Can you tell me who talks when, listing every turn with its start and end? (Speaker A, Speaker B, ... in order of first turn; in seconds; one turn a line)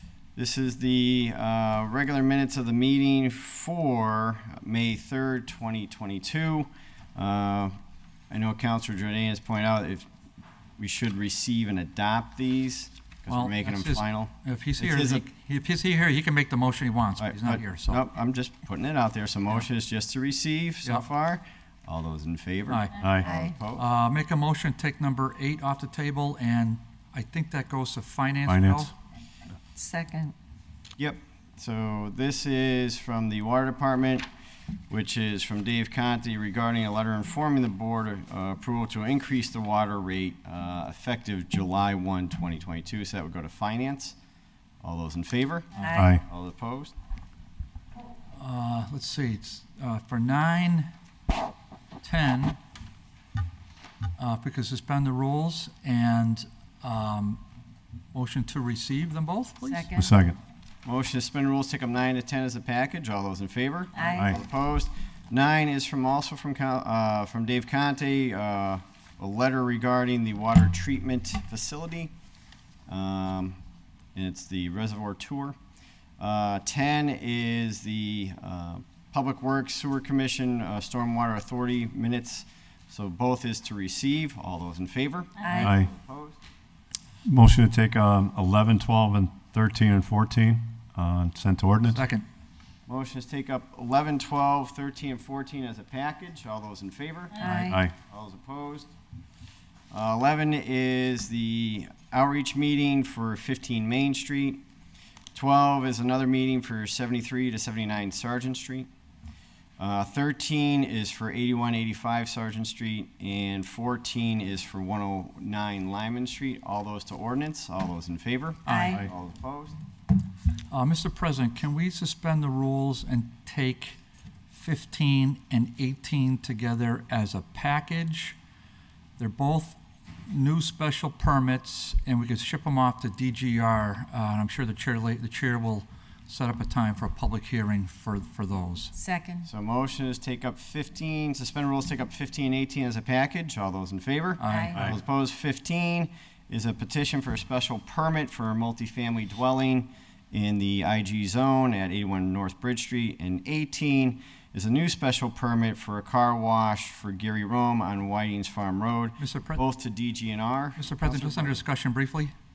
Speaker A: 0.3-7.8
Speaker A: 8.3-10.1
Speaker A: 10.8-15.2
Speaker B: 13.3-18.0
Speaker A: 17.2-23.9
Speaker B: 22.7-23.0
Speaker C: 23.0-23.3
Speaker D: 23.2-23.5
Speaker B: 23.8-28.9
Speaker C: 28.5-28.9
Speaker D: 29.8-30.3
Speaker A: 31.0-34.3
Speaker A: 34.9-44.2
Speaker A: 44.8-47.0
Speaker D: 45.8-46.1
Speaker C: 46.0-46.2
Speaker B: 48.4-50.9
Speaker B: 52.0-52.6
Speaker B: 54.2-57.4
Speaker B: 58.1-59.9
Speaker D: 59.6-60.1
Speaker C: 60.0-60.4
Speaker A: 60.9-72.1
Speaker D: 64.0-64.4
Speaker A: 72.9-73.6
Speaker A: 74.2-75.6
Speaker A: 76.2-86.4
Speaker D: 85.4-85.7
Speaker C: 85.6-85.9
Speaker C: 87.3-92.0
Speaker B: 91.9-92.2
Speaker A: 92.9-98.9
Speaker D: 97.4-97.8
Speaker C: 97.5-97.9
Speaker A: 99.9-104.6
Speaker A: 105.3-108.9
Speaker A: 109.8-119.8
Speaker B: 118.7-119.0
Speaker D: 118.7-119.0
Speaker B: 120.7-124.0
Speaker B: 124.5-128.4
Speaker B: 129.2-138.9
Speaker D: 138.9-139.5
Speaker A: 139.4-161.6
Speaker B: 144.4-144.9
Speaker D: 144.5-144.8
Speaker B: 159.2-159.6
Speaker B: 160.8-162.3